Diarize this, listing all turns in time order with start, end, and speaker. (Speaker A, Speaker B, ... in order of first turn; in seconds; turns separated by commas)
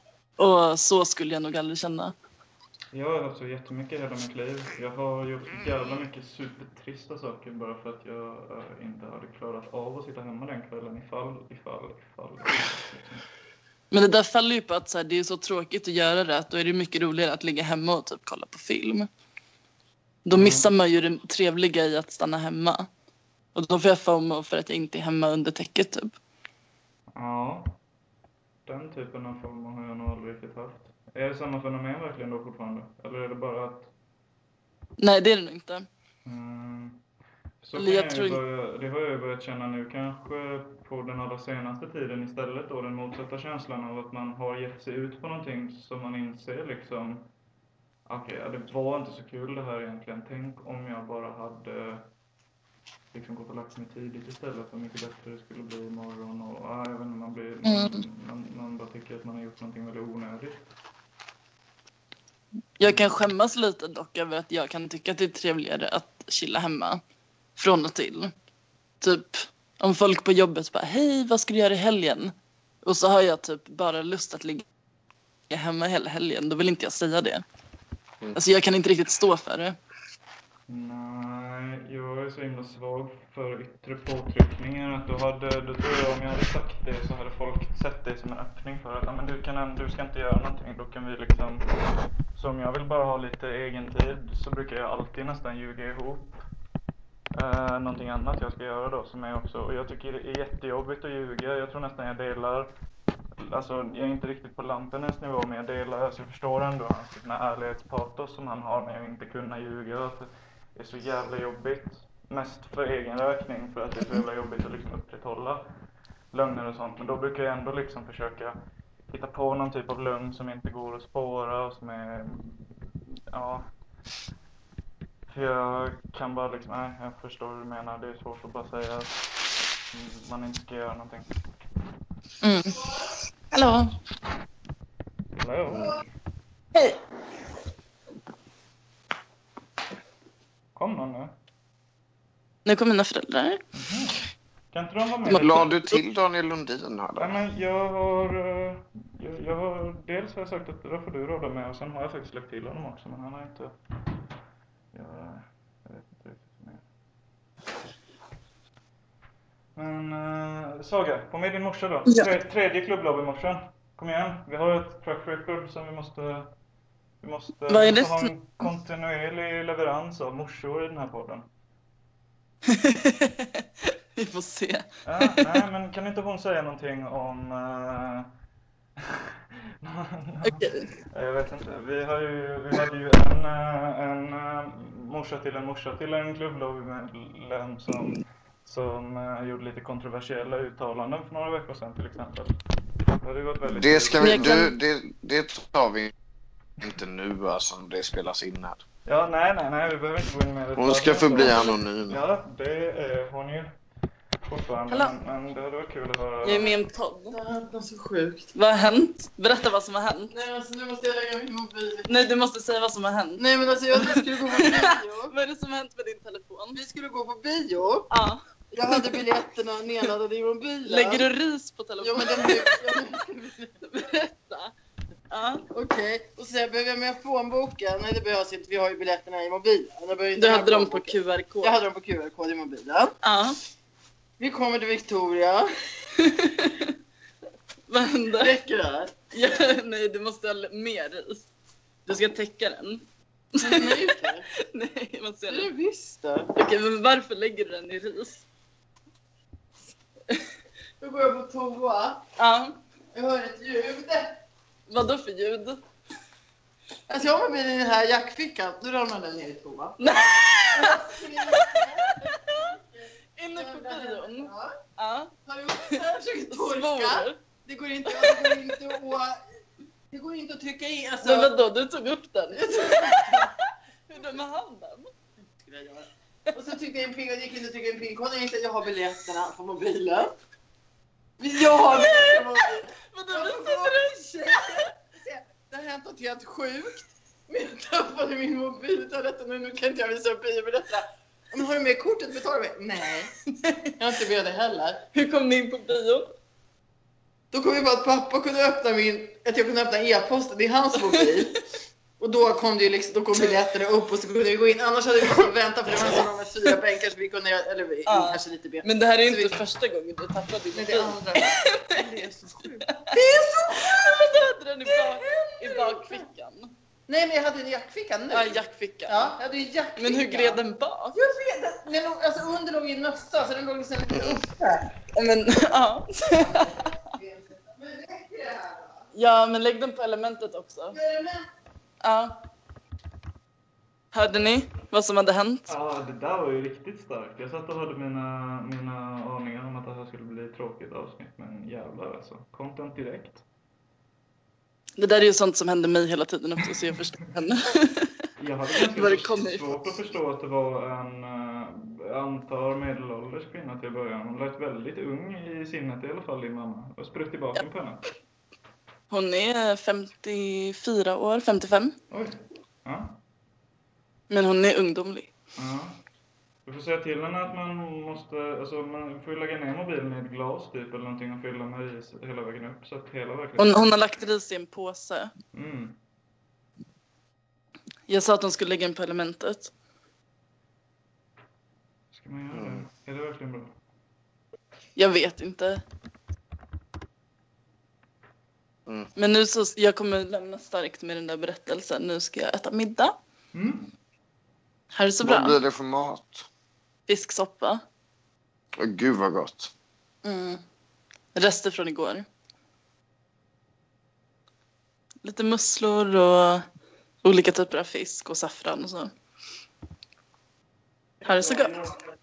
Speaker A: 0.4-2.1, Speaker B: 2.9-13.2, Speaker A: 13.9-19.1, Speaker A: 20.2-22.9, Speaker B: 20.3-20.7, Speaker A: 23.5-26.1, Speaker B: 27.1-27.8, Speaker B: 28.6-33.9, Speaker A: 35.0-35.8, Speaker B: 36.2-37.0, Speaker B: 37.6-47.3, Speaker A: 37.8-38.4, Speaker B: 48.1-52.0, Speaker B: 53.1-60.6, Speaker A: 57.7-57.9, Speaker A: 62.8-67.0, Speaker B: 62.8-63.2, Speaker A: 67.5-68.3, Speaker A: 69.0-74.6, Speaker A: 75.5-77.4, Speaker A: 78.3-79.8, Speaker B: 80.7-91.7, Speaker B: 92.3-96.4, Speaker B: 97.3-102.7, Speaker B: 103.4-115.6, Speaker B: 116.3-118.5, Speaker B: 119.1-122.7, Speaker B: 123.3-123.6, Speaker B: 125.3-129.2, Speaker B: 129.9-131.3, Speaker A: 132.4-132.8, Speaker A: 133.5-133.9, Speaker B: 135.3-136.0, Speaker B: 140.7-141.3, Speaker A: 142.6-143.6, Speaker B: 143.7-145.8, Speaker A: 145.3-145.7, Speaker C: 145.4-147.4, Speaker B: 147.2-153.7, Speaker B: 154.9-156.8, Speaker B: 159.8-166.5, Speaker B: 167.2-171.5, Speaker A: 167.7-168.3, Speaker A: 172.7-173.6, Speaker A: 174.1-175.5, Speaker B: 175.0-178.3, Speaker B: 179.8-192.5, Speaker A: 180.4-180.8, Speaker B: 193.2-194.7, Speaker C: 193.7-196.1, Speaker A: 194.2-194.7, Speaker C: 196.8-198.8, Speaker B: 199.1-203.7, Speaker C: 200.8-202.2, Speaker B: 204.5-206.7, Speaker A: 206.4-207.4, Speaker D: 207.3-208.5, Speaker A: 208.5-210.3, Speaker D: 210.3-212.1, Speaker A: 212.1-216.8, Speaker D: 213.4-215.3, Speaker D: 216.7-218.1, Speaker A: 218.1-219.2, Speaker D: 218.7-221.2, Speaker A: 220.8-222.8, Speaker D: 222.0-223.7, Speaker A: 223.9-224.7, Speaker A: 225.3-225.6, Speaker D: 225.7-233.1, Speaker A: 230.4-231.7, Speaker A: 233.2-233.6, Speaker D: 234.4-235.7, Speaker A: 236.2-236.9, Speaker A: 237.9-238.5, Speaker D: 238.4-239.1, Speaker A: 239.3-241.5, Speaker A: 242.1-243.0, Speaker A: 243.6-245.7, Speaker D: 243.6-244.5, Speaker D: 245.5-246.5, Speaker A: 246.5-248.4, Speaker D: 251.0-252.2, Speaker A: 252.4-252.8, Speaker D: 253.1-254.3, Speaker A: 254.9-255.8, Speaker D: 257.1-260.0, Speaker A: 260.0-261.0, Speaker D: 260.7-264.7, Speaker A: 261.5-261.9, Speaker A: 263.4-265.3, Speaker D: 265.4-269.4, Speaker A: 266.5-267.4, Speaker A: 268.1-268.6, Speaker D: 270.1-271.5, Speaker A: 271.2-273.5, Speaker D: 272.5-273.5, Speaker A: 274.1-275.1, Speaker D: 275.6-280.3, Speaker D: 281.4-282.8, Speaker A: 281.6-284.9, Speaker D: 283.3-293.3, Speaker A: 293.6-293.9, Speaker D: 294.0-295.0, Speaker A: 295.1-296.3, Speaker D: 297.5-301.5, Speaker D: 302.2-309.6, Speaker A: 308.1-312.0, Speaker D: 310.7-314.3, Speaker A: 313.8-316.7, Speaker D: 314.9-316.2, Speaker D: 317.1-320.6, Speaker A: 318.3-319.3, Speaker A: 320.0-321.2, Speaker D: 321.1-324.9, Speaker A: 325.1-326.6, Speaker D: 326.3-329.0, Speaker A: 329.1-331.0, Speaker D: 330.9-331.4, Speaker A: 332.0-332.4, Speaker A: 334.1-335.7, Speaker B: 335.7-343.4, Speaker A: 345.0-348.1, Speaker B: 348.4-358.1, Speaker A: 348.8-350.0, Speaker A: 359.1-361.9, Speaker B: 362.1-363.2, Speaker A: 364.3-365.3, Speaker B: 365.6-366.0, Speaker B: 366.6-373.9, Speaker A: 373.6-375.3, Speaker B: 375.5-376.0, Speaker A: 378.1-379.7, Speaker B: 382.1-383.7, Speaker C: 382.5-382.8, Speaker A: 384.9-385.8, Speaker A: 389.1-393.1, Speaker B: 393.5-393.9, Speaker A: 394.9-395.6, Speaker C: 395.2-396.5, Speaker A: 397.1-397.8, Speaker C: 398.8-399.7, Speaker A: 400.2-400.6, Speaker A: 401.3-402.2, Speaker A: 405.2-406.6, Speaker A: 407.2-409.1, Speaker A: 411.2-411.9